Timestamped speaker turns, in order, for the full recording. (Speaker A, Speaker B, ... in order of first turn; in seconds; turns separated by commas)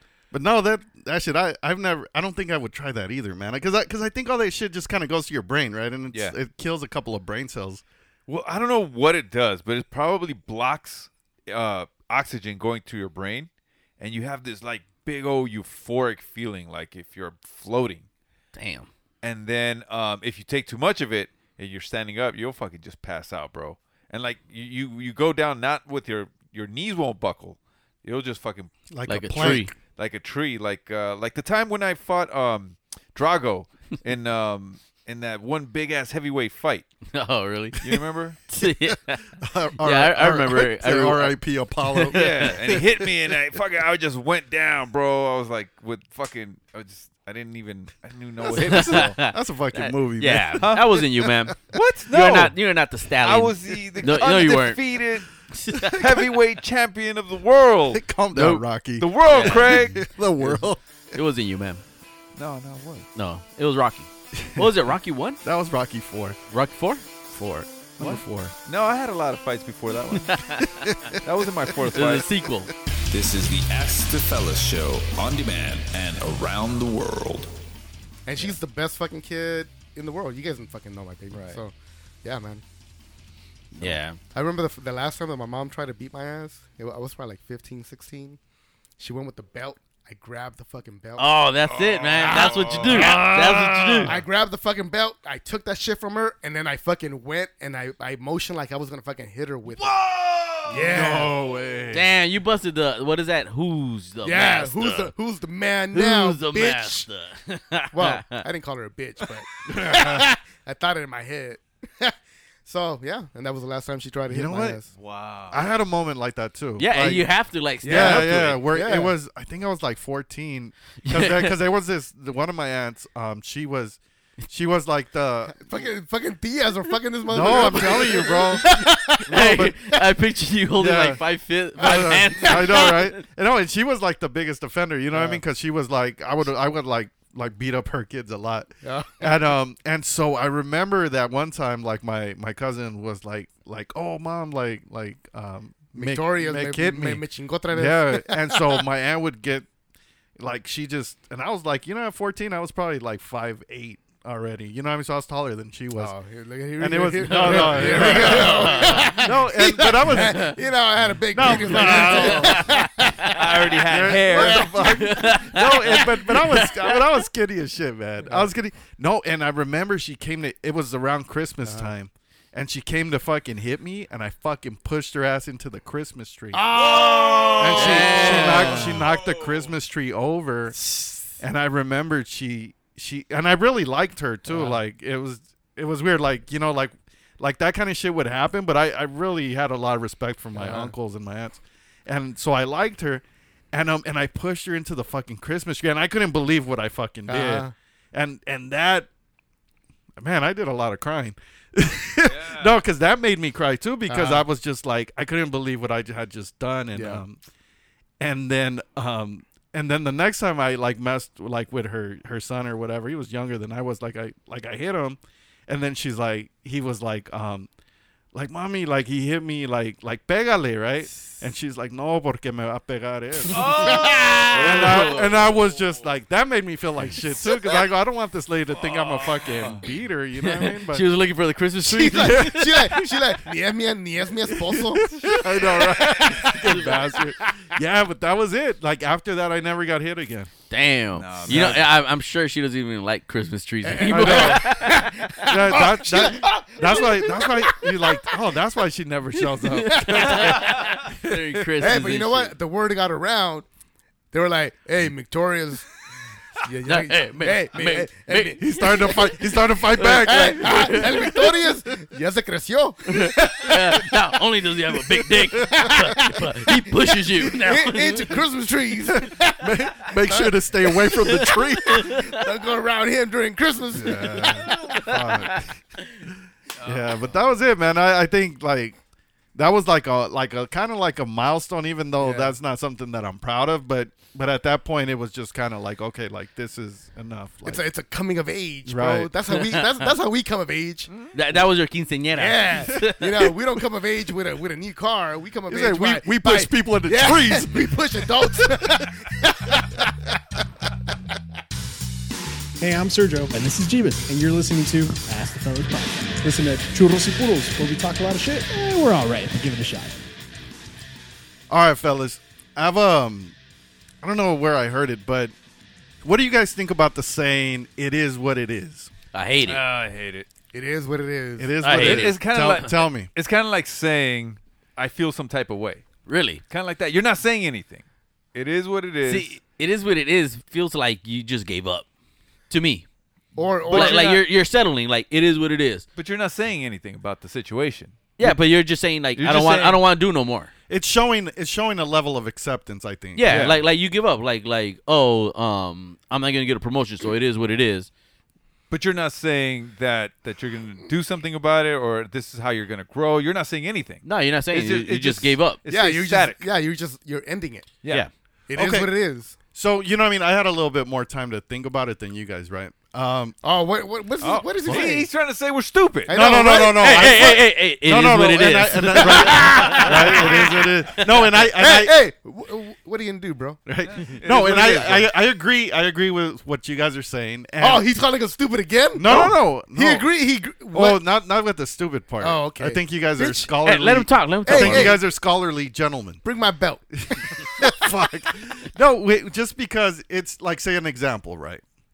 Speaker A: 0.3-7.8, Speaker B: 8.3-13.5, Speaker B: 14.0-18.1, Speaker C: 18.5-18.9, Speaker B: 19.2-28.7, Speaker A: 28.9-29.8, Speaker C: 29.1-29.7, Speaker B: 29.9-36.9, Speaker C: 37.1-37.9, Speaker B: 37.8-38.4, Speaker C: 38.5-39.2, Speaker A: 38.6-43.1, Speaker C: 39.8-42.5, Speaker B: 42.1-49.1, Speaker A: 48.4-51.5, Speaker C: 48.6-51.6, Speaker B: 50.6-50.9, Speaker B: 51.7-52.5, Speaker C: 52.1-54.8, Speaker B: 53.2-55.3, Speaker C: 55.5-56.0, Speaker B: 55.9-58.0, Speaker A: 57.9-60.8, Speaker C: 58.3-58.6, Speaker B: 59.0-60.1, Speaker C: 59.3-61.8, Speaker B: 62.4-63.1, Speaker C: 63.1-65.4, Speaker A: 64.3-64.7, Speaker A: 65.4-66.4, Speaker C: 66.5-68.2, Speaker A: 68.0-68.5, Speaker B: 68.0-70.4, Speaker C: 70.3-70.7, Speaker A: 70.8-71.1, Speaker B: 71.2-72.3, Speaker C: 71.9-72.7, Speaker D: 73.1-77.5, Speaker E: 78.2-82.6, Speaker B: 81.3-81.6, Speaker A: 83.7-84.0, Speaker C: 83.8-84.2, Speaker E: 84.3-88.4, Speaker E: 89.0-91.4, Speaker C: 91.2-94.1, Speaker B: 91.8-92.9, Speaker E: 92.3-93.2, Speaker A: 92.8-94.2, Speaker E: 94.0-99.9, Speaker B: 99.7-101.0, Speaker E: 100.7-101.3, Speaker A: 100.7-102.2, Speaker C: 101.9-105.1, Speaker E: 104.2-107.1, Speaker C: 105.9-108.4, Speaker E: 107.9-112.1, Speaker A: 109.7-110.3, Speaker E: 112.7-114.9, Speaker A: 114.3-114.8, Speaker B: 115.0-115.6, Speaker A: 115.5-117.3, Speaker C: 116.8-118.6, Speaker A: 117.8-124.0, Speaker E: 117.9-119.1, Speaker C: 121.0-121.6, Speaker A: 124.5-125.6, Speaker E: 125.5-129.7, Speaker A: 127.3-128.7, Speaker C: 128.6-133.2, Speaker A: 129.2-129.9, Speaker A: 130.8-131.2, Speaker A: 131.8-149.7, Speaker E: 131.8-132.6, Speaker E: 135.1-135.4, Speaker E: 138.8-139.3, Speaker E: 145.9-148.8, Speaker A: 150.4-156.1, Speaker E: 155.9-165.2, Speaker A: 156.8-160.6, Speaker C: 157.2-159.3, Speaker C: 160.0-160.6, Speaker A: 161.3-162.7, Speaker C: 161.4-163.4, Speaker B: 163.3-164.7, Speaker A: 163.8-176.7, Speaker C: 164.7-167.0, Speaker E: 171.6-171.9, Speaker E: 176.5-178.5, Speaker B: 176.7-179.7, Speaker A: 177.6-180.8, Speaker C: 177.7-178.9, Speaker A: 181.4-199.1, Speaker E: 190.5-190.9, Speaker E: 197.3-197.7, Speaker A: 200.2-207.4, Speaker B: 202.2-202.8, Speaker E: 204.1-204.4, Speaker E: 206.9-207.2, Speaker A: 208.2-217.7, Speaker A: 218.3-231.1, Speaker B: 223.5-225.9, Speaker C: 223.8-225.3, Speaker B: 228.8-229.8, Speaker C: 230.4-232.8, Speaker E: 231.8-237.0, Speaker A: 232.1-233.2, Speaker A: 234.5-240.5, Speaker C: 240.7-246.2, Speaker B: 241.1-241.8, Speaker A: 241.4-241.8, Speaker E: 243.8-248.1, Speaker A: 244.0-251.0, Speaker C: 249.7-252.5, Speaker E: 249.9-251.0, Speaker E: 251.8-253.7, Speaker E: 254.3-255.8, Speaker E: 256.6-259.5, Speaker C: 256.8-259.2, Speaker A: 258.5-261.5, Speaker C: 259.9-261.4, Speaker E: 260.0-264.1, Speaker C: 263.1-268.4, Speaker E: 265.5-274.8, Speaker A: 269.1-272.1, Speaker A: 273.9-275.8, Speaker C: 274.7-275.5, Speaker B: 276.8-277.4, Speaker A: 276.8-279.0, Speaker A: 279.5-287.8, Speaker E: 282.2-282.5, Speaker E: 287.6-291.1, Speaker A: 288.8-289.3, Speaker C: 289.5-289.8, Speaker C: 291.3-293.3, Speaker E: 292.3-300.1, Speaker A: 295.7-299.0, Speaker F: 302.8-310.2, Speaker A: 311.7-313.5, Speaker A: 314.2-315.5, Speaker A: 316.2-319.1, Speaker C: 319.3-319.8, Speaker B: 319.6-320.5, Speaker E: 320.7-321.8, Speaker A: 321.6-323.3, Speaker C: 321.8-322.4, Speaker B: 321.9-326.0, Speaker C: 326.2-326.6, Speaker B: 326.7-329.6, Speaker C: 329.2-332.1, Speaker C: 332.7-333.1, Speaker E: 333.6-334.3, Speaker B: 333.8-334.4, Speaker C: 333.9-336.1, Speaker B: 336.2-338.6, Speaker C: 338.4-340.7, Speaker B: 339.4-340.0, Speaker A: 340.9-343.5, Speaker C: 343.4-348.1, Speaker B: 343.5-343.8, Speaker B: 348.9-356.6, Speaker C: 354.2-355.8, Speaker E: 355.9-357.9, Speaker B: 358.0-358.3, Speaker E: 358.7-359.5, Speaker A: 358.7-359.1, Speaker A: 359.7-363.6, Speaker E: 363.6-365.3, Speaker B: 364.4-366.3, Speaker A: 364.9-365.1, Speaker E: 366.3-367.4, Speaker A: 366.3-372.2, Speaker C: 366.7-370.3, Speaker E: 369.2-370.7, Speaker E: 371.6-373.8, Speaker A: 373.9-378.1, Speaker B: 374.1-375.3, Speaker E: 377.8-381.2, Speaker A: 379.1-380.3, Speaker A: 380.9-386.4, Speaker E: 382.4-383.7, Speaker C: 383.8-385.1, Speaker E: 384.6-385.2, Speaker E: 386.4-388.0, Speaker A: 387.4-391.8